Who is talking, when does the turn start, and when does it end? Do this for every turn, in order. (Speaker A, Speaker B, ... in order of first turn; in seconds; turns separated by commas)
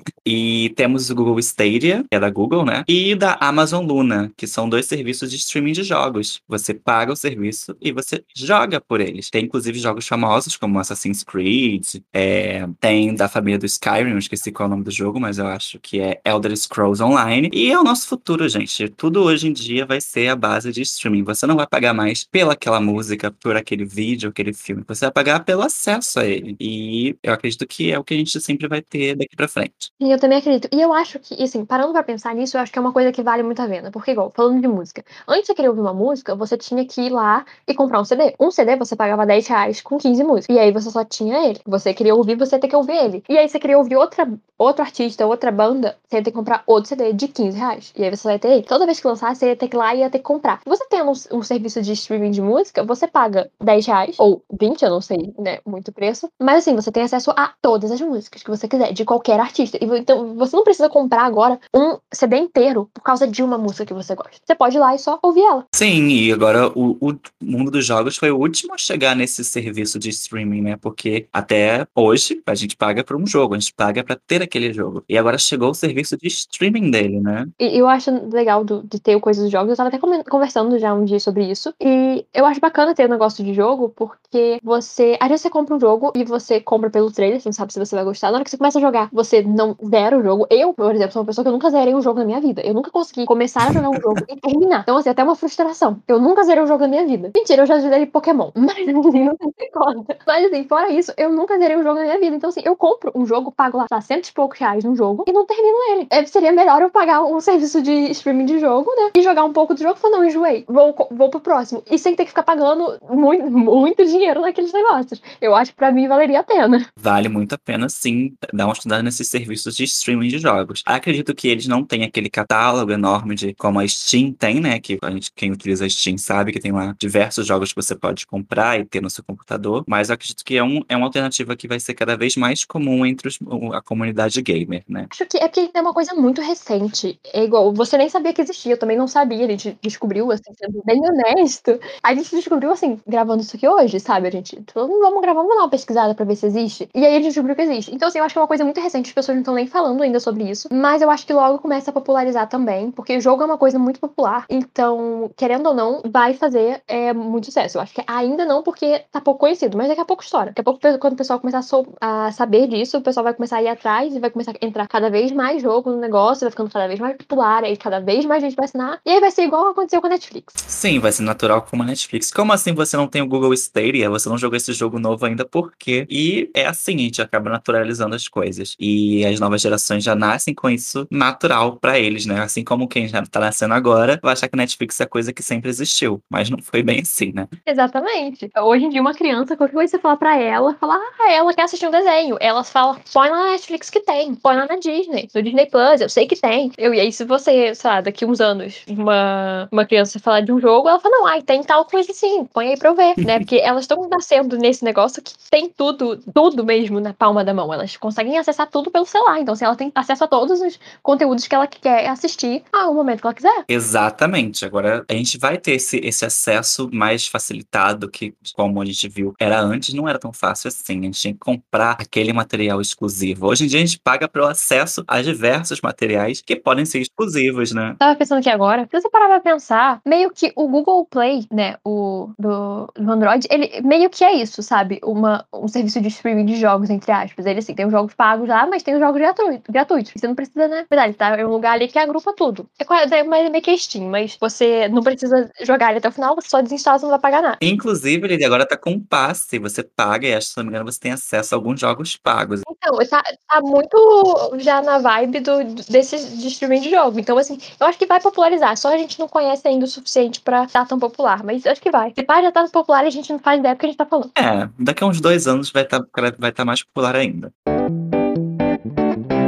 Speaker A: 0.2-29.9, Speaker B: 30.0-65.7, Speaker A: 65.7-77.5, Speaker B: 77.6-116.9, Speaker A: 93.6-94.2, Speaker A: 117.0-135.1, Speaker B: 135.1-170.6, Speaker A: 170.6-187.5, Speaker B: 187.7-213.6, Speaker A: 213.7-228.0, Speaker B: 228.0-247.6, Speaker A: 247.6-252.7, Speaker B: 252.7-264.3, Speaker A: 264.4-267.5